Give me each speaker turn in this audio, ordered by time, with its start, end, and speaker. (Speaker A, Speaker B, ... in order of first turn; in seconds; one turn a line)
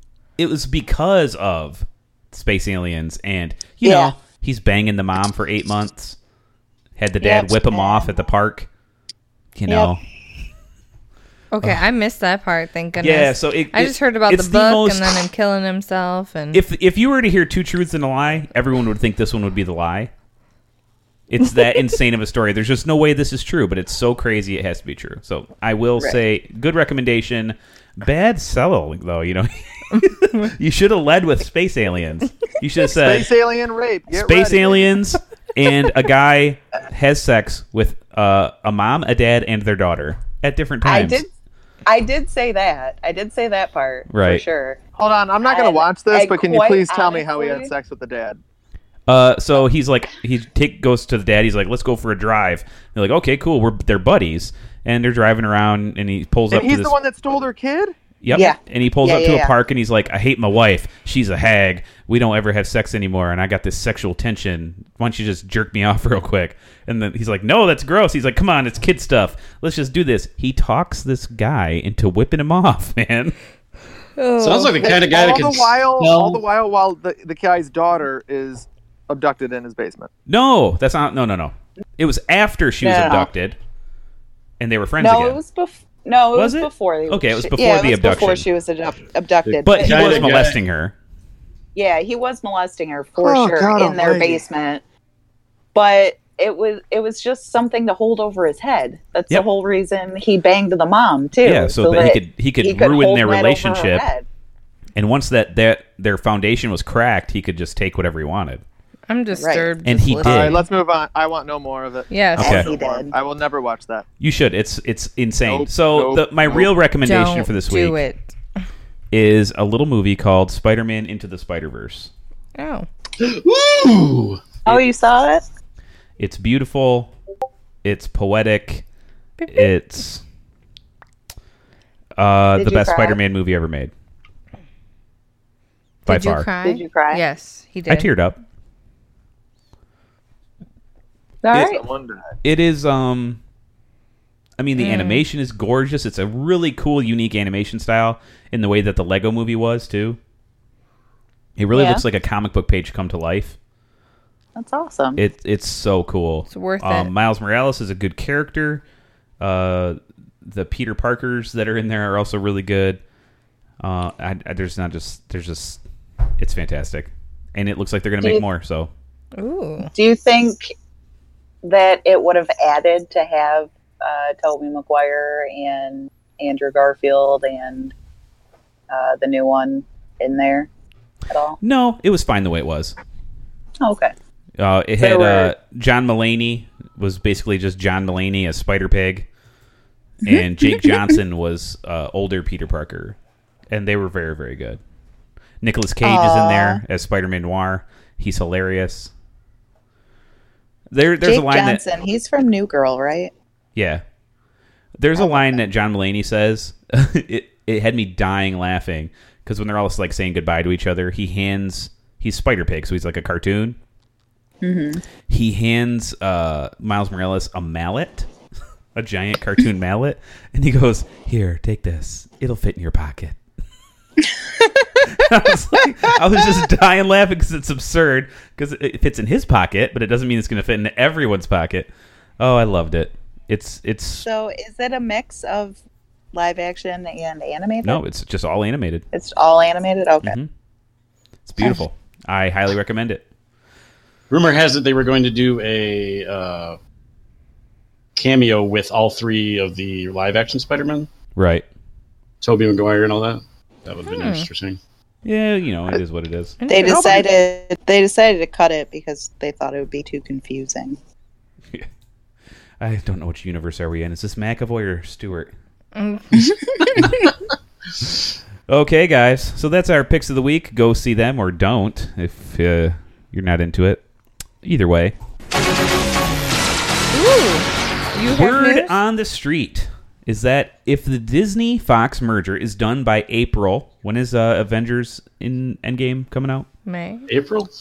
Speaker A: 0.4-6.2
Speaker B: 3.8-4.1
Speaker A: 7.0-8.7
Speaker B: 7.2-8.2
Speaker A: 9.5-10.0
Speaker B: 9.7-10.0
Speaker C: 11.5-16.6
Speaker A: 13.0-15.2
Speaker A: 16.5-20.1
Speaker A: 21.3-33.3
Speaker D: 33.0-35.0
Speaker A: 34.1-41.2
Speaker B: 40.8-41.3
Speaker B: 41.8-44.8
Speaker A: 44.1-44.4
Speaker D: 45.0-48.4
Speaker B: 45.5-47.7
Speaker A: 49.1-57.0
Speaker D: 56.5-57.9
Speaker A: 58.2-73.3
Speaker B: 58.3-59.5
Speaker C: 74.2-74.9
Speaker E: 74.4-76.4
Speaker D: 74.8-80.1
Speaker A: 80.3-83.6
Speaker B: 82.8-83.3
Speaker A: 84.6-85.4
Speaker B: 85.0-90.4
Speaker A: 86.3-88.5
Speaker E: 89.5-90.6
Speaker A: 89.6-90.9
Speaker B: 91.7-94.8
Speaker D: 93.2-94.4
Speaker B: 95.7-104.2
Speaker A: 101.4-104.1
Speaker A: 105.0-108.6
Speaker C: 109.1-110.6
Speaker B: 109.3-109.7
Speaker A: 109.8-110.6
Speaker D: 110.2-114.0
Speaker C: 112.1-112.5
Speaker A: 112.4-112.7
Speaker B: 112.4-113.1
Speaker A: 114.2-118.0
Speaker D: 115.4-116.7
Speaker C: 117.0-118.2
Speaker A: 119.1-122.1
Speaker C: 122.5-122.9
Speaker E: 123.2-124.5
Speaker B: 124.6-125.4
Speaker A: 126.2-127.1
Speaker A: 127.8-128.8
Speaker C: 129.4-129.7
Speaker A: 129.5-130.2
Speaker A: 132.2-133.9
Speaker B: 132.6-133.2
Speaker C: 136.1-138.1
Speaker A: 136.1-136.5
Speaker B: 136.6-137.2
Speaker A: 137.9-138.4
Speaker B: 141.4-141.8
Speaker D: 141.6-142.3
Speaker A: 142.4-143.4
Speaker A: 144.6-150.2
Speaker C: 144.8-145.2
Speaker A: 151.6-153.6
Speaker B: 151.7-152.0
Speaker B: 154.6-155.2
Speaker A: 155.2-158.8
Speaker C: 156.5-157.1
Speaker A: 159.4-163.0
Speaker A: 163.8-165.8
Speaker A: 166.4-168.9
Speaker C: 169.3-169.9
Speaker B: 169.9-170.7
Speaker B: 171.6-177.9
Speaker B: 178.9-180.7
Speaker B: 181.3-181.6
Speaker A: 181.6-182.9
Speaker B: 183.8-184.1
Speaker A: 184.6-189.2
Speaker B: 185.0-185.5
Speaker B: 190.2-191.2
Speaker A: 190.2-193.2
Speaker A: 193.7-194.8
Speaker A: 195.6-199.1
Speaker B: 196.0-196.8
Speaker A: 200.9-201.8
Speaker B: 201.2-203.3
Speaker A: 203.7-204.0
Speaker A: 205.0-213.8
Speaker B: 205.2-205.6
Speaker B: 214.6-215.0
Speaker A: 215.3-218.3
Speaker A: 218.9-223.4
Speaker A: 225.1-234.2
Speaker B: 234.2-235.8
Speaker B: 236.3-238.0
Speaker A: 237.8-239.0
Speaker B: 239.1-240.3
Speaker A: 240.2-240.5
Speaker A: 241.4-243.2
Speaker E: 244.3-246.8
Speaker E: 248.2-251.1
Speaker A: 251.3-251.6
Speaker E: 252.4-254.8
Speaker C: 254.1-254.5
Speaker A: 255.2-256.6
Speaker C: 256.6-257.2
Speaker B: 256.7-261.0
Speaker A: 262.8-265.5
Speaker C: 265.9-267.2
Speaker A: 268.7-274.0
Speaker A: 274.6-275.1
Speaker C: 277.1-278.9
Speaker A: 278.3-286.7
Speaker C: 286.9-287.3
Speaker E: 287.3-287.7